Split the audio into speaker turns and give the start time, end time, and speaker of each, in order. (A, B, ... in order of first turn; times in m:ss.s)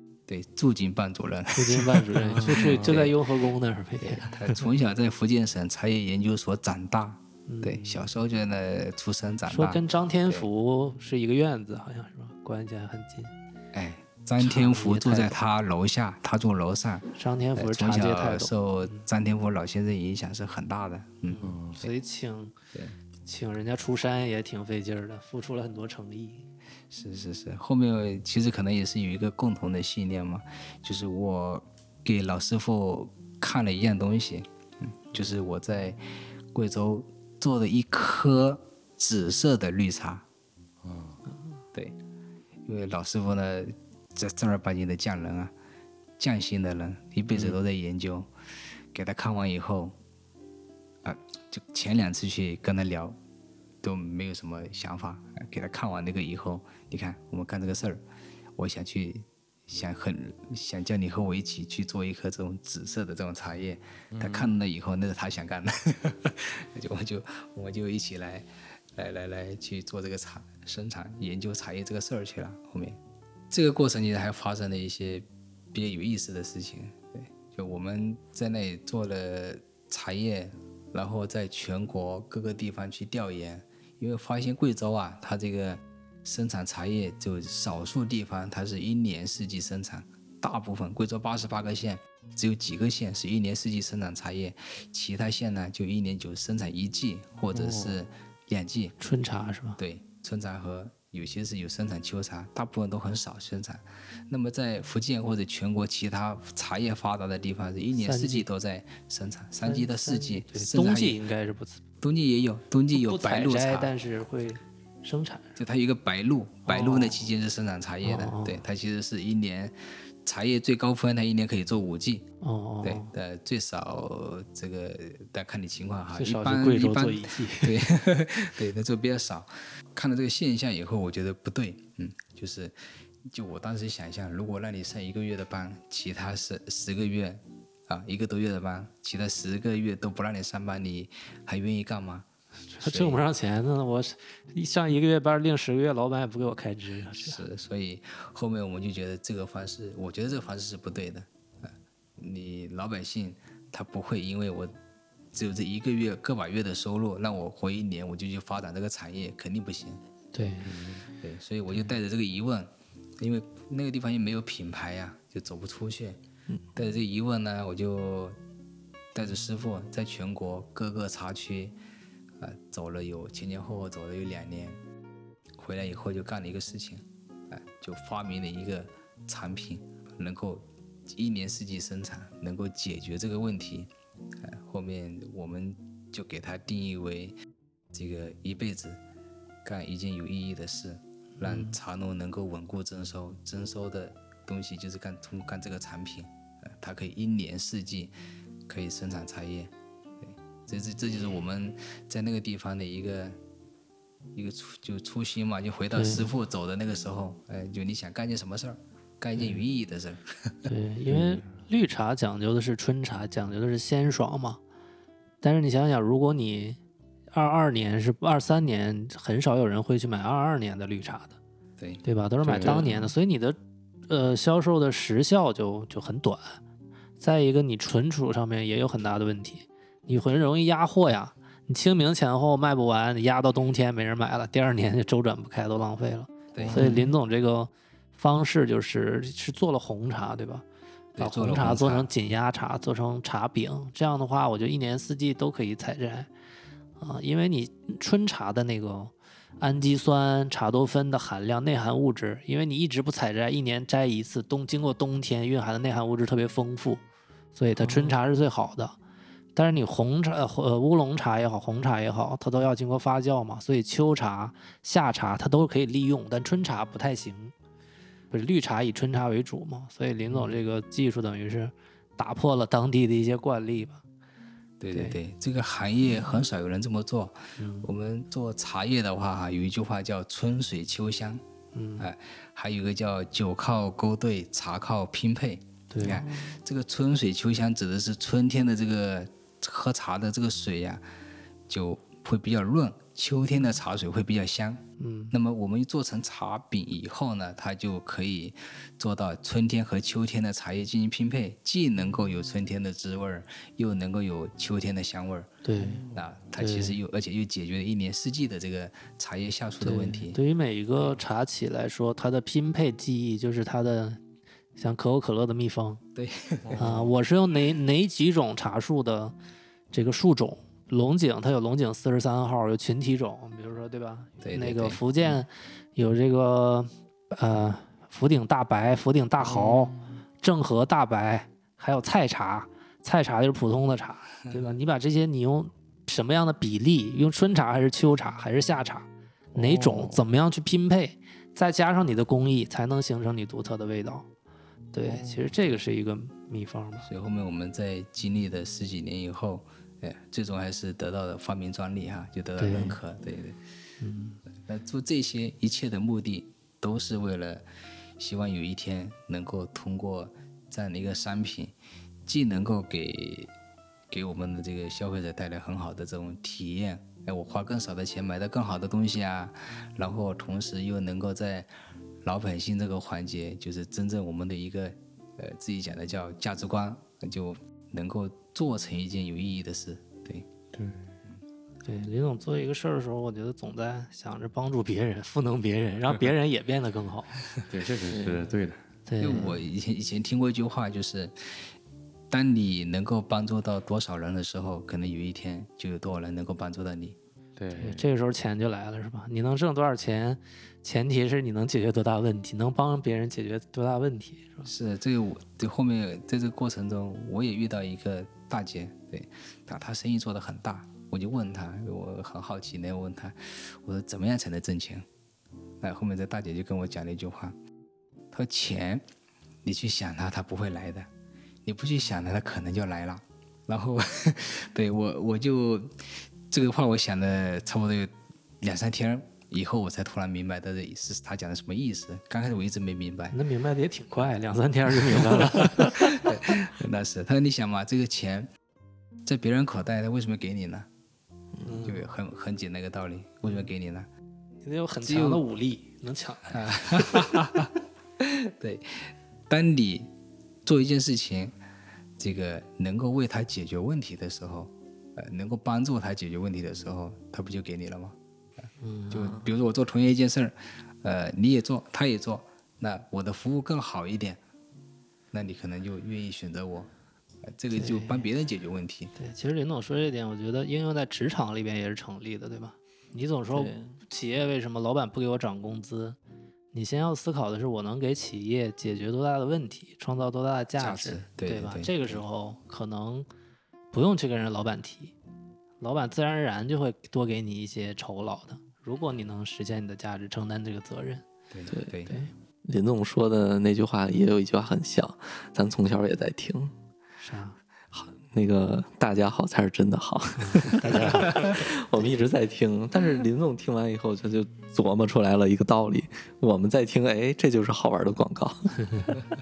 0:00.3-0:03.2 A
0:01.5-0:04.6 B
0:02.4-0:02.9 C
0:04.0-0:10.5 A
0:07.5-0:08.0 B
0:09.5-0:13.3 B
0:13.7-0:21.9 A
0:14.4-0:15.4 B
0:17.2-0:18.5 B
0:21.3-0:22.6 B
0:21.4-0:21.8 C
0:23.2-0:26.5 B
0:26.9-0:40.2 A
0:40.8-0:41.2 C
0:42.7-0:45.5 A
0:46.2-0:48.3 A
0:47.3-0:47.6 C
0:48.9-0:50.0 A
0:51.0-0:53.2 A
0:53.8-0:58.0 A
0:58.6-1:13.0 A
1:04.1-1:04.5 C
1:13.5-1:39.0 A
1:37.5-1:38.0 C
1:39.0-1:39.8 B
1:39.8-1:51.2 A
1:48.0-1:48.4 B
1:49.6-1:51.8 B
1:52.0-1:53.9 A
1:52.9-1:55.6 B
1:55.6-2:02.2 A
1:56.7-1:57.3 B
1:58.0-1:58.6 B
2:02.4-2:03.1 B
2:02.8-2:22.3 A
2:06.2-2:07.8 B
2:22.8-2:27.4 B
2:22.8-2:23.2 A
2:27.1-2:34.7 A
2:35.3-2:40.0 A
2:40.3-2:40.8 B
2:40.6-2:41.0 C
2:41.1-2:46.2 A
2:46.8-2:48.4 A
2:49.1-2:51.8 A
2:52.4-2:54.8 A
2:55.6-3:07.3 A
3:07.9-3:09.0 A
3:09.6-3:18.2 A
3:11.4-3:11.8 B
3:18.7-3:23.4 A
3:24.3-3:30.7 A
3:25.9-3:26.3 B
3:30.7-3:34.6 B
3:31.1-3:31.4 C
3:35.4-3:36.8 B
3:37.3-3:41.4 B
3:41.8-3:42.0 A
3:42.0-3:43.6 B
3:42.4-3:42.8 C
3:44.1-3:46.6 B
3:47.2-4:00.6 B
3:56.5-3:56.9 A
3:56.8-3:57.1 D
4:01.2-4:02.1 A
4:01.2-4:06.3 B
4:07.0-4:17.0 B
4:17.6-4:19.0 B
4:17.8-4:18.1 D
4:19.6-4:27.5 B
4:28.3-4:34.0 B
4:34.8-4:41.4 A
4:34.9-4:35.2 B
4:37.6-4:37.9 B
4:41.7-4:42.1 B
4:42.0-4:51.0 A
4:45.9-4:46.2 B
4:46.2-4:46.6 D
4:51.7-5:05.6 A
4:55.0-4:55.3 B
5:05.6-5:06.0 B
5:06.1-5:10.4 A
5:06.6-5:07.0 B
5:09.8-5:14.2 B
5:14.8-5:16.0 B
5:16.2-5:17.0 A
5:16.6-5:17.1 C
5:16.8-5:19.4 B
5:19.9-5:44.3 B
5:24.4-5:25.3 A
5:39.5-5:40.2 C
5:44.9-5:47.1 B
5:47.0-5:53.6 A
5:52.6-5:53.0 B
5:54.0-5:54.4 B
5:54.7-5:57.6 A
5:58.2-6:01.7 A
6:02.3-6:03.5 A
6:04.1-6:11.7 A
6:12.2-6:20.5 A
6:20.7-6:21.2 C
6:21.8-6:27.4 B
6:27.6-6:28.8 C
6:28.1-6:28.5 D
6:29.1-6:29.6 B
6:29.2-6:31.7 A
6:32.3-6:37.2 A
6:37.6-6:38.0 C
6:37.8-6:44.7 B
6:44.6-6:55.1 A
6:55.8-6:57.6 A
6:58.3-6:59.0 A
6:59.6-7:01.1 A
7:01.6-7:13.4 A
7:13.3-7:16.2 B
7:15.8-7:18.5 A
7:19.2-7:20.9 A
7:21.6-7:22.1 B
7:21.8-7:24.1 A
7:24.6-7:27.3 B
7:25.0-7:25.4 A
7:26.5-7:30.1 A
7:30.6-7:31.6 A
7:32.2-7:38.2 A
7:38.8-7:39.4 B
7:39.1-7:44.4 A
7:45.3-7:46.9 A
7:47.4-7:49.1 A
7:47.8-7:48.3 B
7:49.2-7:56.2 B
7:53.5-7:54.0 D
7:56.7-8:03.3 B
8:00.8-8:02.2 A
8:03.9-8:05.1 B
8:05.8-8:11.2 B
8:11.5-8:12.1 A
8:11.7-8:12.0 D
8:12.1-8:12.3 B
8:12.6-8:16.7 D
8:17.2-8:17.6 B
8:17.9-8:29.2 D
8:20.4-8:21.6 B